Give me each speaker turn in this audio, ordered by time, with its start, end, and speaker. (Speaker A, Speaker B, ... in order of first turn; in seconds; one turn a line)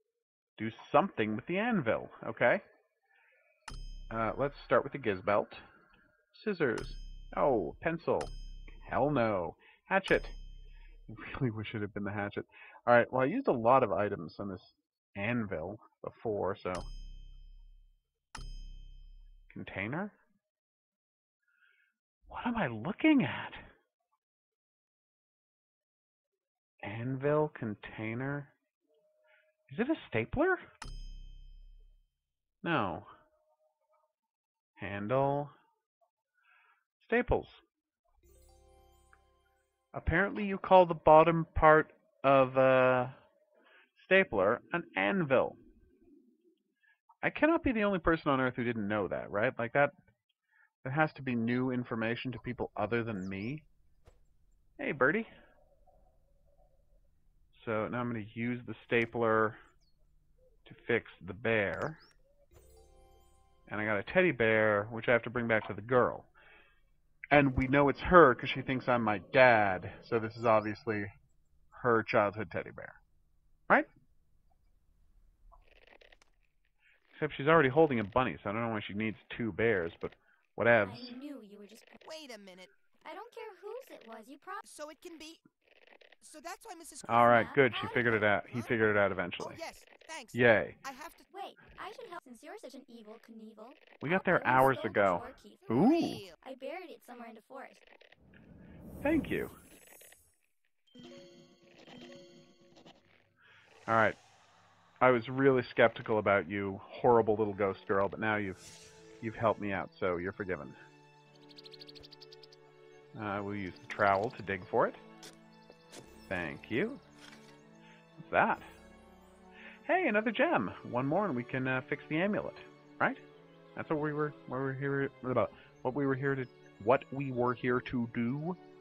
Speaker A: 0.6-2.6
Speaker A: 4.1-5.6
Speaker A: 6.3-8.3
Speaker A: 8.8-10.3
Speaker A: 11.1-16.9
Speaker A: 19.5-20.1
Speaker A: 22.3-23.6
Speaker A: 26.8-28.5
Speaker A: 29.7-30.6
Speaker A: 32.6-33.1
Speaker A: 34.8-35.5
Speaker A: 37.0-37.6
Speaker A: 39.9-43.1
Speaker A: 44.0-45.6
Speaker A: 47.2-49.9
Speaker A: 50.8-53.6
Speaker A: 54.8-55.3
Speaker A: 57.5-59.6
Speaker A: 60.6-62.0
Speaker A: 63.7-66.3
Speaker A: 67.3-71.1
Speaker A: 71.7-73.0
Speaker A: 77.1-81.2
Speaker B: 80.8-82.0
Speaker C: 82.0-82.7
Speaker B: 83.0-84.6
Speaker C: 84.6-85.4
Speaker C: 86.2-88.7
Speaker A: 87.1-89.6
Speaker B: 87.1-88.2
Speaker C: 89.4-91.2
Speaker A: 90.3-90.8
Speaker B: 91.3-97.8
Speaker A: 94.0-96.2
Speaker C: 95.7-96.4
Speaker A: 99.0-99.5
Speaker A: 103.9-104.2
Speaker A: 105.0-108.6
Speaker A: 109.2-110.8
Speaker A: 113.1-115.0
Speaker A: 116.3-117.0
Speaker A: 118.2-118.7
Speaker A: 119.8-123.2
Speaker A: 123.8-128.6